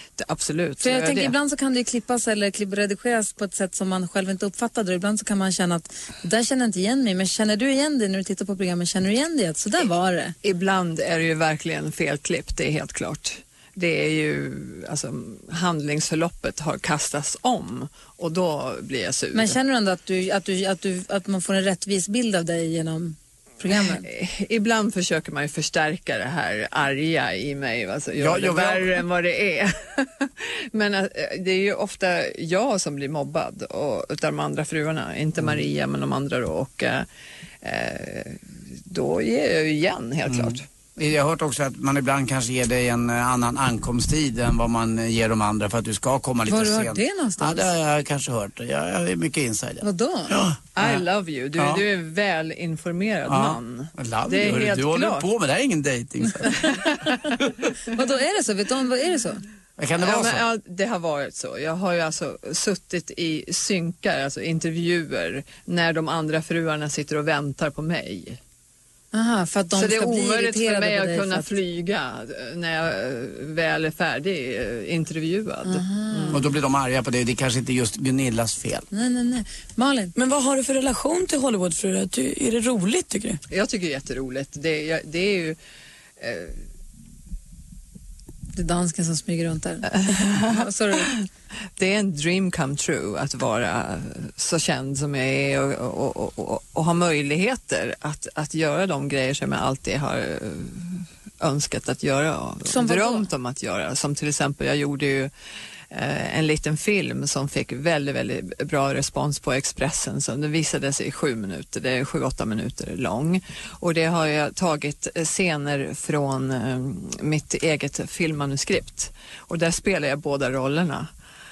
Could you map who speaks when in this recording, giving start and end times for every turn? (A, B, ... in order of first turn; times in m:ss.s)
0:00.2-0:01.3 A
0:00.8-0:10.4 B
0:10.4-0:19.6 A
0:19.3-0:24.0 B
0:24.0-0:37.1 A
0:28.2-0:29.0 C
0:37.6-0:40.6 A
0:40.3-0:51.0 C
0:46.5-0:47.7 B
0:49.8-0:50.4 B
0:50.8-0:55.3 A
0:53.3-0:56.8 C
0:56.6-0:57.1 A
0:57.9-0:59.4 B
0:59.8-1:00.4 C
1:00.0-1:08.4 A
1:09.1-1:11.5 B
1:09.8-1:16.4 A
1:15.6-1:16.4 B
1:16.3-1:18.9 C
1:18.9-1:20.1 B
1:20.2-1:23.4 D
1:23.5-1:25.6 A
1:26.2-1:26.6 A
1:28.6-1:31.1 B
1:29.9-1:31.2 A
1:31.8-1:45.3 A
1:42.7-1:43.3 B
1:45.9-2:01.1 A